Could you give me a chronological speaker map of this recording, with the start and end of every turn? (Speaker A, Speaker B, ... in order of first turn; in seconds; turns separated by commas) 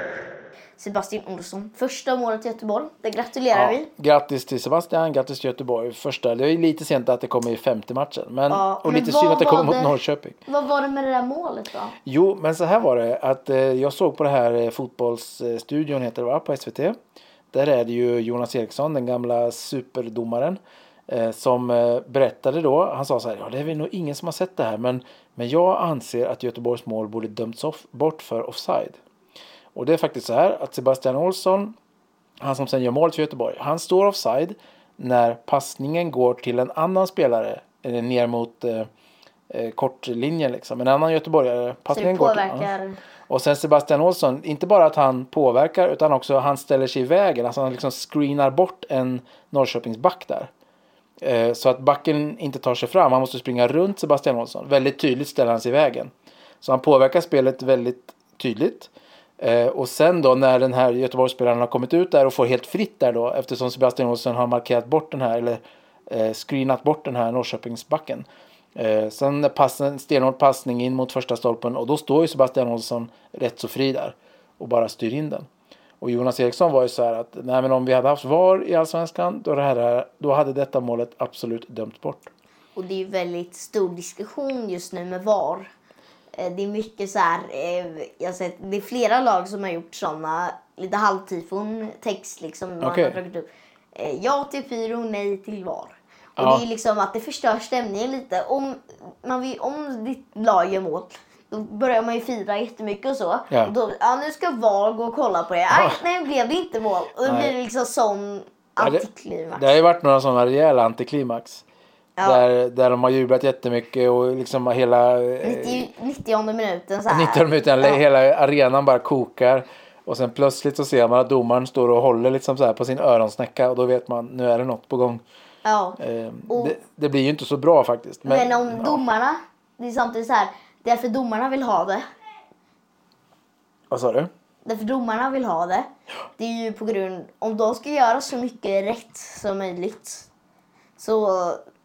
Speaker A: 0.8-3.9, Speaker B: 3.5-10.4, Speaker A: 8.5-9.9, Speaker A: 10.5-12.0, Speaker B: 12.1-17.0, Speaker B: 17.5-29.0, Speaker B: 29.8-31.8, Speaker B: 32.4-38.9, Speaker B: 39.5-42.7, Speaker A: 41.9-43.0, Speaker B: 43.3-50.5, Speaker B: 51.2-75.5, Speaker B: 76.0-82.3, Speaker A: 82.8-85.7, Speaker A: 86.3-109.8, Speaker B: 92.8-93.2, Speaker B: 96.4-96.7, Speaker B: 105.7-106.0, Speaker B: 107.2-107.6, Speaker B: 108.8-111.6, Speaker A: 112.2-112.4, Speaker B: 112.2-115.9, Speaker A: 115.4-118.0, Speaker B: 117.1-125.2, Speaker A: 125.7-126.8, Speaker B: 126.0-129.0, Speaker A: 128.2-132.1, Speaker B: 133.9-134.3, Speaker A: 134.6-140.3, Speaker A: 141.0-141.6